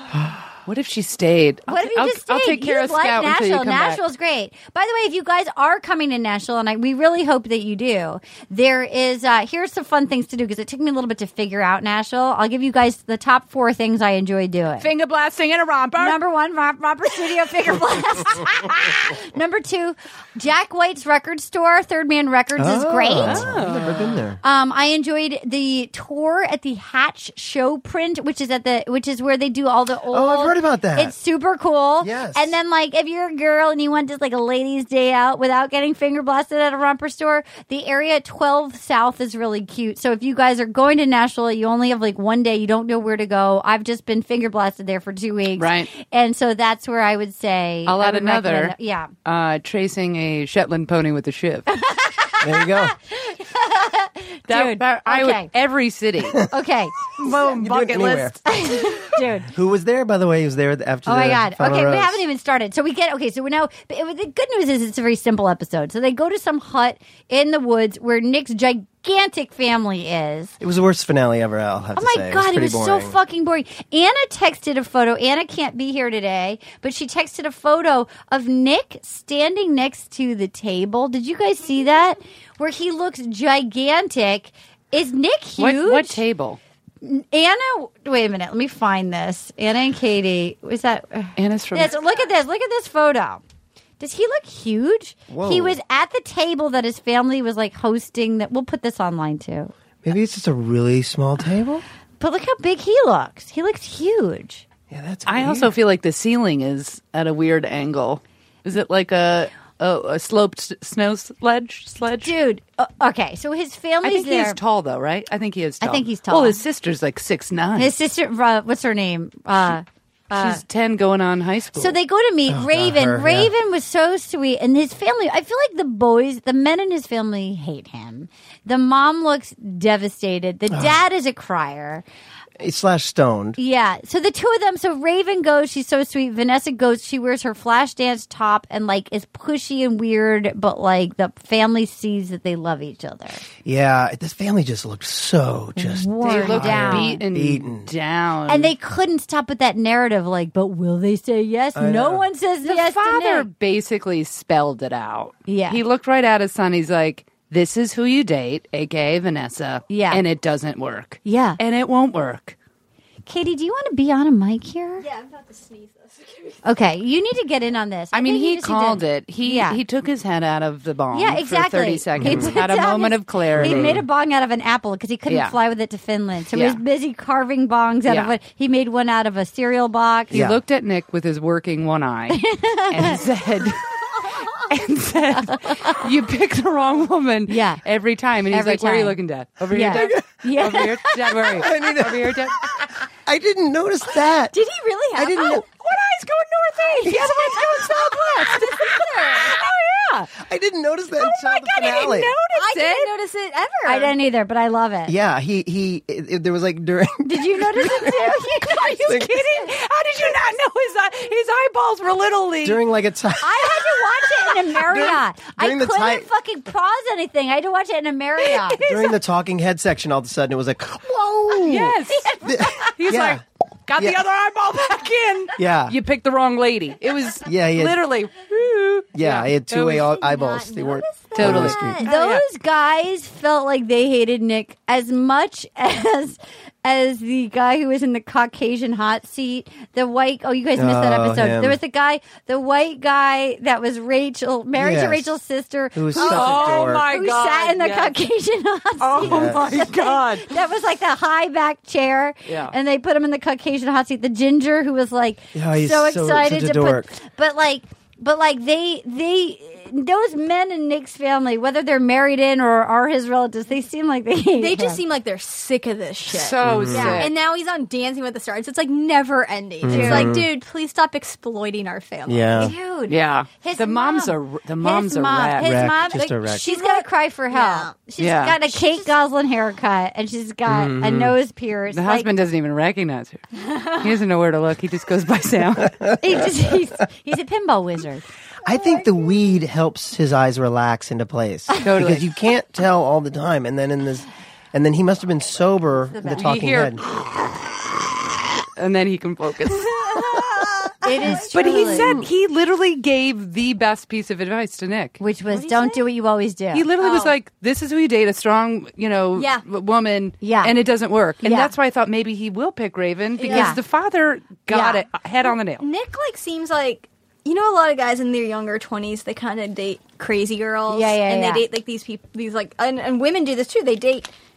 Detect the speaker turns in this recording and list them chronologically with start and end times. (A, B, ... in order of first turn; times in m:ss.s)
0:00.6-0:04.0 A
0:01.7-0:14.9 B
0:14.8-0:16.2 A
0:16.0-0:23.5 B
0:22.6-0:24.4 C
0:23.2-0:24.2 A
0:24.4-0:49.1 B
0:30.1-0:31.1 C
0:32.0-0:32.6 C
0:45.6-0:45.9 A
0:47.8-0:51.7 A
0:51.7-0:55.5 B
0:52.4-0:53.0 C
0:54.5-0:56.4 A
0:56.4-0:57.0 B
0:57.2-0:58.4 A
0:57.2-0:58.4 C
0:58.4-0:59.5 B
0:59.4-1:02.2 C
1:01.0-1:10.6 B
1:10.6-1:13.2 C
1:12.0-1:26.2 B
1:25.6-1:26.6 A
1:27.0-1:33.4 B
1:31.4-1:32.0 A
1:34.0-1:39.7 B
1:35.3-1:35.8 C
1:40.0-1:41.8 C
1:42.2-1:44.6 B
1:44.9-1:45.7 C
1:45.2-1:52.3 A
1:52.2-1:54.6 B
1:54.0-1:57.9 A
1:55.8-1:56.6 B
1:57.8-2:00.6 B
2:00.3-2:02.0 A
2:01.8-2:12.0 B
2:02.5-2:03.5 C
2:10.7-2:11.0 C
2:12.6-2:13.6 C
2:13.6-2:23.4 B
2:23.6-2:27.9 C
2:25.8-2:27.2 B
2:26.2-2:28.7 A
2:28.5-2:33.5 B
2:31.7-2:32.2 C
2:32.6-2:42.6 A
2:35.5-2:35.8 B
2:39.9-2:40.2 B
2:41.2-2:41.6 B
2:43.2-2:45.0 B
2:45.0-2:46.6 D
2:46.6-2:49.8 B
2:48.1-2:54.0 A
2:51.1-3:00.3 B
2:52.2-2:52.6 C
2:53.5-2:54.0 C
2:55.3-2:55.6 A
2:56.5-2:56.8 A
2:58.1-2:58.3 A
3:00.3-3:12.6 A
3:00.3-3:00.6 C
3:02.3-3:03.2 B
3:05.5-3:06.0 B
3:07.5-3:07.8 B
3:08.5-3:09.2 B
3:09.7-3:11.5 B
3:09.9-3:10.2 C
3:11.5-3:14.6 C
3:14.5-3:15.6 D
3:15.1-3:15.6 C
3:15.8-3:20.3 A
3:17.1-3:17.4 C
3:17.1-3:19.6 D
3:20.4-3:22.4 C
3:21.2-3:23.1 A
3:22.5-3:24.1 D
3:23.8-3:25.1 B
3:25.0-3:28.2 C
3:27.2-3:29.0 B
3:28.5-3:32.8 A
3:29.0-3:29.4 C
3:32.6-3:33.9 C
3:33.4-3:38.8 B
3:34.8-3:36.3 C
3:38.4-3:39.2 A
3:38.8-3:43.4 C
3:41.6-3:50.1 A
3:45.6-3:46.0 C
3:47.4-3:48.0 C
3:49.1-3:52.0 C
3:50.0-3:52.1 D
3:51.3-3:52.4 A
3:52.0-4:25.0 B
4:00.7-4:01.8 C
4:04.7-4:05.4 C
4:05.9-4:07.1 C
4:06.1-4:08.1 A
4:09.0-4:10.4 A
4:09.2-4:09.8 C
4:12.4-4:12.7 A
4:15.5-4:17.1 C
4:24.5-4:32.7 D
4:26.3-4:27.3 A
4:26.6-4:27.2 C
4:29.8-4:30.5 C
4:29.9-4:30.3 B
4:32.2-4:32.7 C
4:32.6-4:42.3 B
4:33.1-4:35.9 A
4:35.6-4:36.6 C
4:36.1-4:38.0 D
4:38.2-4:38.6 A
4:38.6-4:39.2 D
4:40.6-4:41.4 C
4:41.9-4:46.0 A
4:46.2-4:48.2 B
4:48.6-4:57.0 C
4:48.6-4:49.1 D
4:51.8-4:52.3 A
4:56.2-4:56.4 B
4:56.3-4:57.7 A
4:58.8-5:00.2 A
4:59.7-5:02.2 D
5:01.0-5:02.2 B
5:01.5-5:05.2 A
5:05.2-5:06.9 B
5:05.5-5:06.0 D
5:06.7-5:15.8 A
5:07.0-5:07.3 D
5:09.3-5:09.6 D
5:10.4-5:10.7 B
5:11.4-5:11.7 B
5:13.4-5:13.7 D
5:13.5-5:13.8 B
5:14.7-5:15.0 B
5:15.4-5:24.3 D
5:20.9-5:21.6 B